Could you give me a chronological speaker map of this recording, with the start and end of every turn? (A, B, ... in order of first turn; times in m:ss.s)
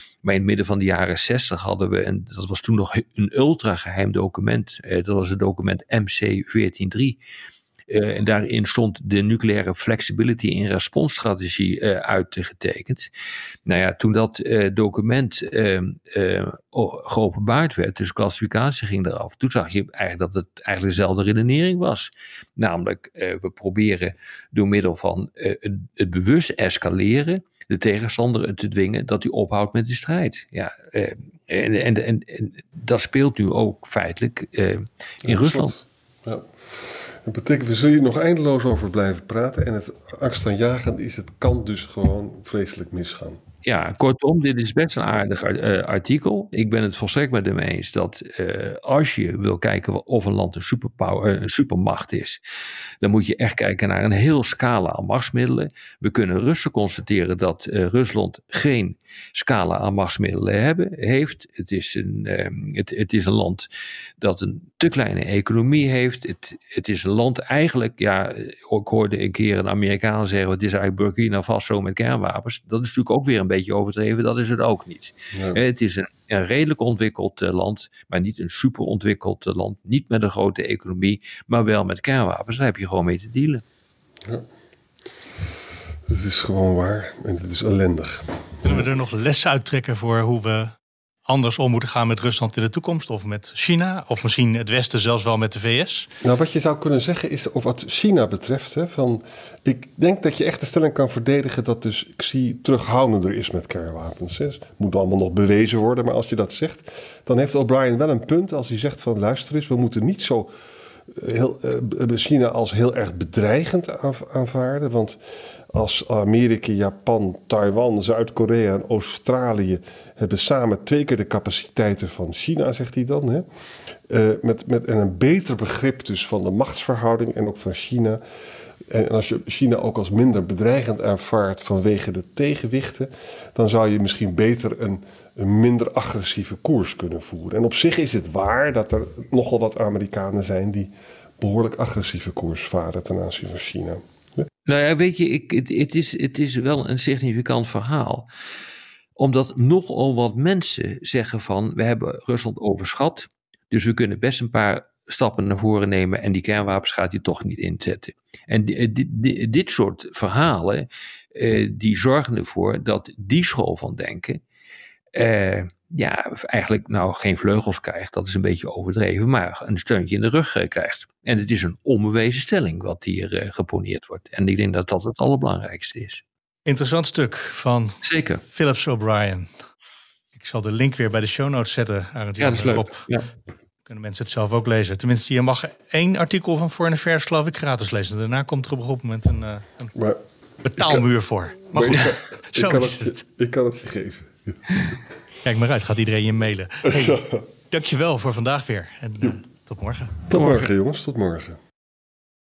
0:00.2-0:07.2 A
0:07.9-0:13.1 A
0:13.7-0:35.7 A
0:35.2-0:43.4 B
0:43.6-0:52.4 A
0:53.0-1:03.7 A
1:04.2-1:23.6 A
1:15.3-1:15.6 B
1:26.1-1:28.8 B
1:28.6-1:30.7 C
1:31.2-1:36.1 C
1:36.2-1:50.5 B
1:51.1-1:55.2 B
1:55.7-2:03.4 B
2:04.1-2:08.2 B
2:08.9-2:24.4 B
2:24.6-2:28.3 A
2:29.2-2:44.4 A
2:45.1-2:56.2 A
2:56.6-2:59.5 C
2:58.0-2:58.4 A
3:00.3-3:03.0 C
3:02.4-3:03.2 A
3:03.9-3:09.9 C
3:10.6-3:13.2 C
3:10.8-3:11.0 B
3:11.7-3:14.6 B
3:15.4-3:20.3 C
3:20.3-3:21.6 B
3:20.3-3:20.7 A